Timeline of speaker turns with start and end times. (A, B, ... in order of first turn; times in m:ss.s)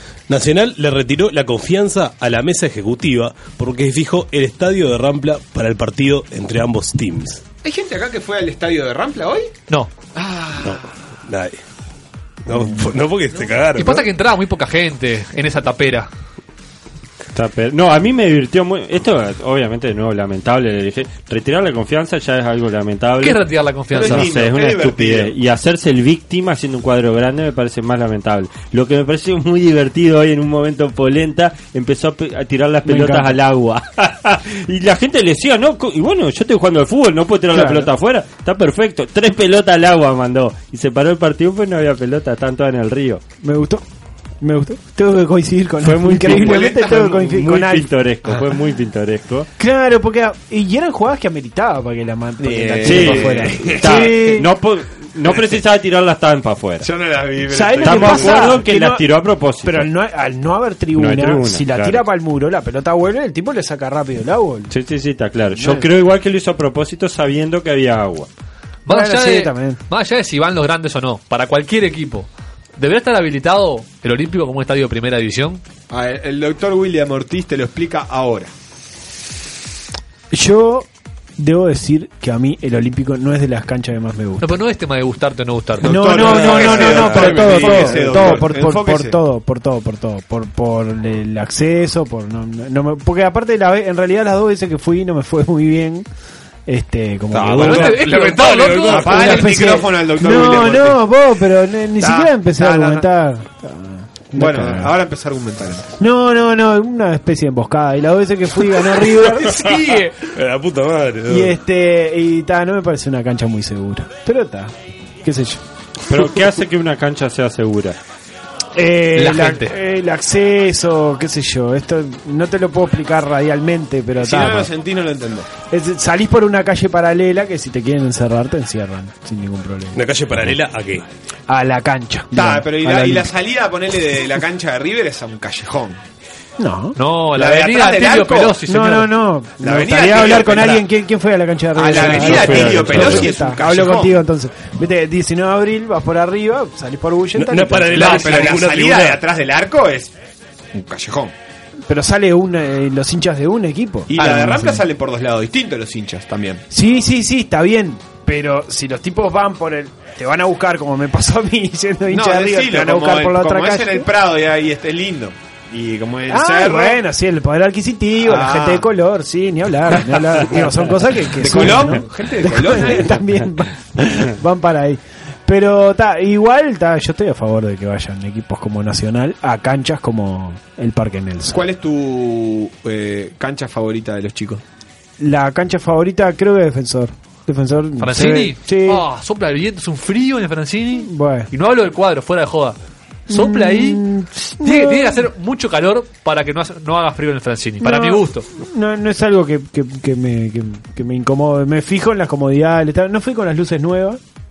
0:00.3-0:07.4 A
0:07.6-0:09.6 B
0:10.1-0:10.9 B
0:10.6-0:11.6 A
0:12.5-0:14.1 A
0:13.8-0:16.1 C
0:17.3-0:43.2 D
0:23.2-0:24.3 C
0:23.9-0:25.3 B
0:32.9-0:33.4 E
0:37.5-0:37.9 E
0:43.4-0:43.8 E
0:44.4-0:47.9 E
0:45.8-0:49.5 D
0:46.2-0:47.3 B
0:49.6-0:54.5 E
0:52.4-0:54.2 B
0:52.8-0:56.9 D
0:56.8-0:58.6 B
0:57.5-0:59.0 E
0:57.8-0:59.9 D
0:59.6-1:04.7 E
1:01.0-1:02.0 D
1:04.7-1:08.3 D
1:05.6-1:05.9 E
1:08.9-1:15.6 C
1:08.9-1:09.8 E
1:15.9-1:18.5 B
1:20.3-1:24.5 E
1:24.4-1:26.5 C
1:25.8-1:29.2 B
1:25.8-1:36.1 E
1:26.2-1:28.3 A
1:36.7-1:38.0 E
1:37.3-1:39.4 A
1:37.4-1:41.0 B
1:37.5-1:39.6 C
1:38.9-1:45.0 E
1:42.0-1:43.1 B
1:44.4-1:45.9 B
1:46.0-1:49.7 E
1:49.5-1:50.1 C
1:50.3-1:51.6 A
1:51.3-1:55.6 E
1:56.1-1:58.0 D
1:58.8-2:04.7 E
1:59.1-1:59.8 C
2:04.2-2:05.5 B
2:05.7-2:10.0 E
2:09.9-2:11.0 A
2:11.5-2:13.3 E
2:12.3-2:16.0 B
2:16.6-2:17.0 E
2:17.0-2:19.1 C
2:17.3-2:18.6 B
2:18.7-2:28.6 E
2:19.6-2:20.8 B
2:21.8-2:24.2 B
2:22.1-2:23.3 D
2:27.4-2:29.2 A
2:27.9-2:30.1 B
2:30.7-2:31.3 B
2:31.9-2:34.8 E
2:34.1-2:36.6 B
2:36.7-2:44.1 E
2:42.1-2:47.0 B
2:46.3-3:01.7 E
2:48.2-2:48.9 B
2:51.4-2:53.2 B
3:01.5-3:04.6 B
3:05.2-3:09.0 E
3:08.0-3:12.8 C
3:11.0-3:11.5 E
3:13.3-3:14.0 C
3:13.3-3:15.3 E
3:14.6-3:18.5 C
3:17.8-3:24.2 E